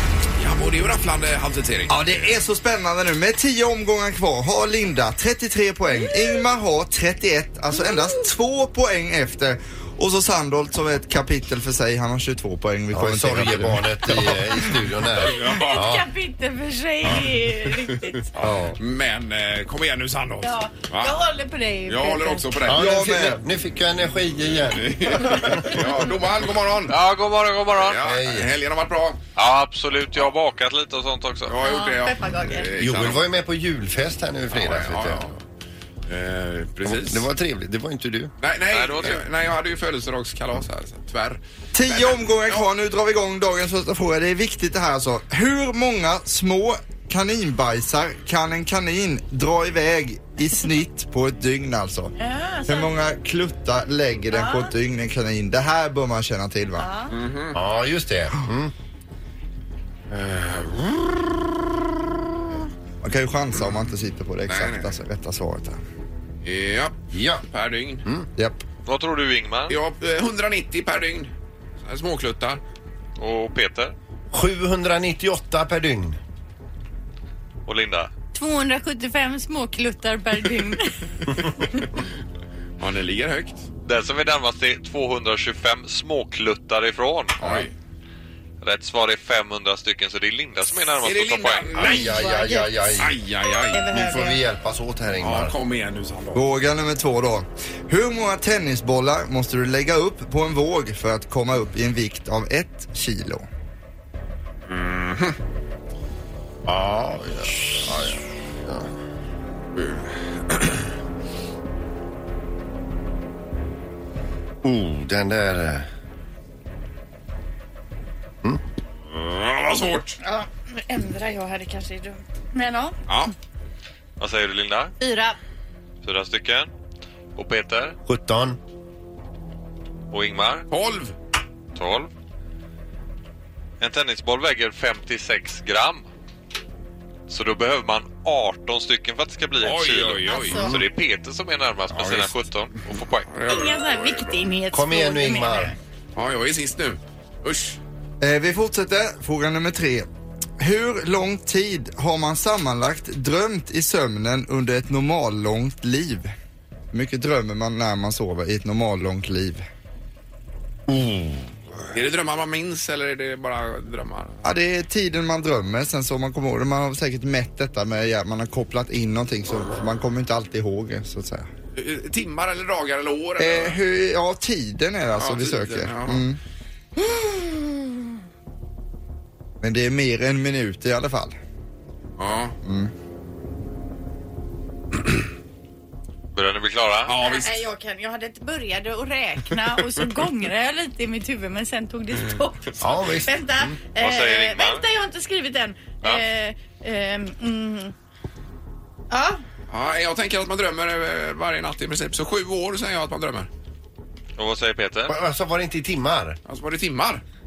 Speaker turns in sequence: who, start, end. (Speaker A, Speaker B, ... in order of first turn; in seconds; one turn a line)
Speaker A: 0.4-2.3
Speaker B: 1.9-14.7
Speaker C: 12.9-16.1
Speaker D: 15.2-18.3
Speaker A: 15.2-15.8
Speaker A: 18.3-21.2
Speaker C: 18.4-18.8
Speaker D: 20.4-22.5
Speaker A: 21.9-23.1
Speaker C: 22.7-25.9
Speaker B: 22.7-23.4
Speaker A: 24.7-27.0
Speaker E: 26.9-28.0
Speaker A: 27.8-29.2
Speaker C: 28.0-28.5
Speaker E: 29.4-31.6
Speaker A: 31.5-33.3
Speaker D: 31.6-32.7
Speaker C: 32.8-35.3
Speaker A: 34.5-35.4
Speaker A: 36.1-37.3
Speaker C: 36.9-38.3
Speaker A: 38.4-42.6
Speaker E: 38.7-39.2
Speaker B: 41.7-52.1
Speaker D: 52.2-53.0
Speaker B: 52.7-56.9
Speaker D: 54.3-54.7
Speaker D: 56.8-57.1
Speaker A: 57.1-57.6
Speaker C: 57.5-58.7
Speaker A: 60.1-60.9
Speaker B: 63.0-65.8
Speaker A: 64.5-64.9
Speaker A: 66.4-68.0
Speaker C: 67.1-67.4
Speaker B: 68.4-68.6
Speaker E: 68.9-69.8
Speaker A: 69.7-71.3
Speaker A: 71.8-72.6
Speaker E: 73.2-73.9
Speaker C: 74.3-76.2
Speaker E: 77.7-78.1
Speaker D: 78.3-81.0
Speaker A: 82.8-83.6
Speaker E: 83.9-87.6
Speaker A: 87.4-87.7
Speaker E: 88.6-91.9
Speaker A: 91.0-92.3
Speaker C: 91.8-93.2
Speaker D: 91.8-92.7
Speaker A: 93.0-93.9
Speaker D: 93.7-94.4
Speaker C: 93.8-95.5
Speaker A: 95.2-96.5
Speaker B: 96.3-103.5
Speaker A: 104.7-105.4
Speaker C: 106.7-108.9
Speaker C: 114.6-115.9
Speaker A: 119.1-120.2
Speaker D: 120.2-123.0
Speaker A: 123.1-123.3
Speaker E: 124.2-124.9
Speaker D: 125.0-125.4
Speaker E: 126.0-126.7
Speaker E: 127.4-128.0
Speaker C: 128.1-128.6
Speaker E: 130.1-130.7
Speaker A: 130.7-131.2
Speaker E: 131.8-132.1
Speaker E: 133.8-136.1
Speaker E: 137.3-143.3
Speaker A: 139.6-140.7
Speaker D: 140.3-140.7
Speaker A: 142.0-142.3
Speaker A: 143.3-144.4
Speaker D: 143.5-145.8
Speaker C: 144.7-145.7
Speaker A: 146.2-147.8
Speaker B: 148.2-150.1
Speaker B: 150.6-156.3
Speaker B: 156.9-159.7
Speaker C: 160.9-161.5
Speaker A: 161.9-164.4
Speaker B: 164.4-171.5
Speaker A: 171.8-173.8
Speaker B: 173.4-176.4
Speaker A: 175.2-176.2
Speaker B: 179.6-181.3
Speaker A: 182.2-182.6
Speaker B: 182.7-182.9
Speaker E: 186.3-187.2
Speaker A: 187.1-187.6
Speaker D: 187.2-197.9
Speaker C: 192.8-193.8
Speaker E: 194.0-194.8
Speaker D: 199.1-199.4
Speaker A: 199.7-203.5
Speaker E: 204.4-205.2
Speaker C: 205.1-206.4
Speaker A: 206.5-207.2